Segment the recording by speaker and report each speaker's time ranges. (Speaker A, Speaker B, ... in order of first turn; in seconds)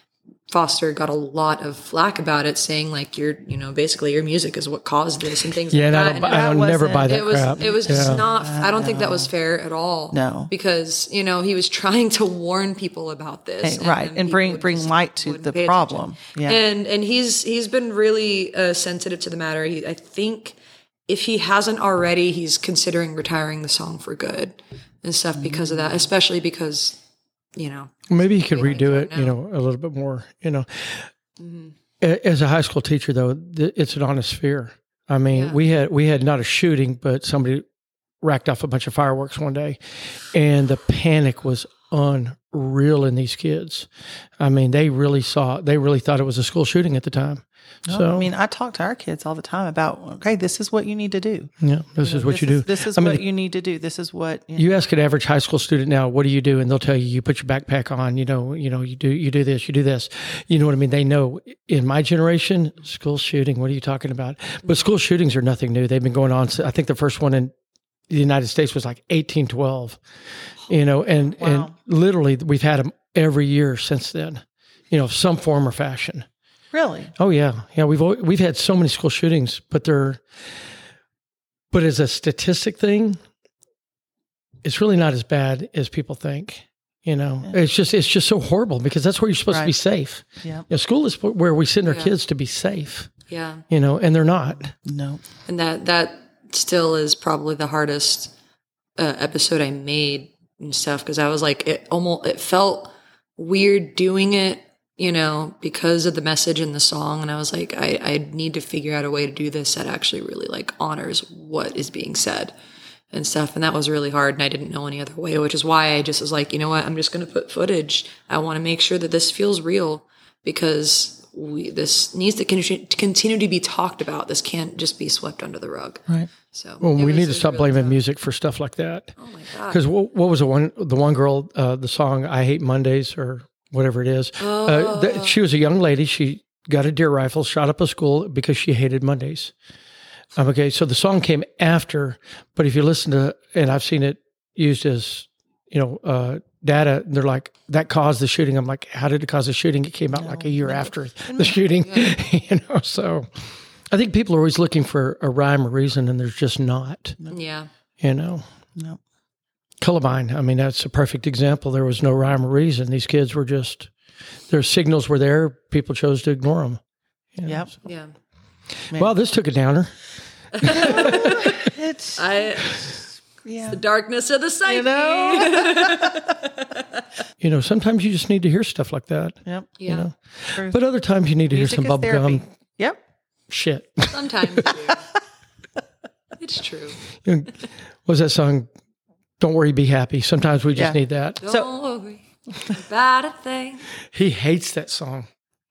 Speaker A: 0.5-20.6, 21.1-27.0, 27.6-29.3, 31.4-31.7, 35.3-35.6, 91.8-92.1, 93.3-93.6, 95.5-98.3, 99.0-112.5, 113.1-128.0, 129.2-129.8, 134.4-135.3, 157.3-157.7, 167.8-168.1, 170.5-172.8, 173.7-177.0, 179.8-180.1, 184.1-185.0, 186.4-187.0, 191.4-193.8
Speaker B: 5.7-8.2, 28.1-31.1, 32.0-37.6, 38.2-39.8, 40.3-43.9, 44.4-48.3, 51.6-53.2, 54.5-67.5, 68.1-70.0, 70.7-76.2, 77.2-80.2, 81.7-83.2, 84.6-93.1, 93.7-94.7, 126.8-129.1, 129.7-139.5, 140.3-153.3, 153.9-157.2, 158.0-158.4, 159.8-163.9, 164.5-166.8, 167.3-167.7, 168.9-169.9, 170.6-171.5, 177.4-182.4, 183.5-184.7, 187.2-188.7, 189.4-191.4, 194.1-195.3
Speaker C: 6.1-9.3, 10.1-10.5, 13.6-16.6, 25.4-26.0, 47.9-51.5, 52.0-54.7, 71.4-71.7, 76.7-77.1, 94.8-95.2, 150.1-151.7, 167.4-167.7, 170.8-173.8, 174.7-176.2, 179.4-179.7, 180.5-180.8, 181.5-183.0, 190.8-191.7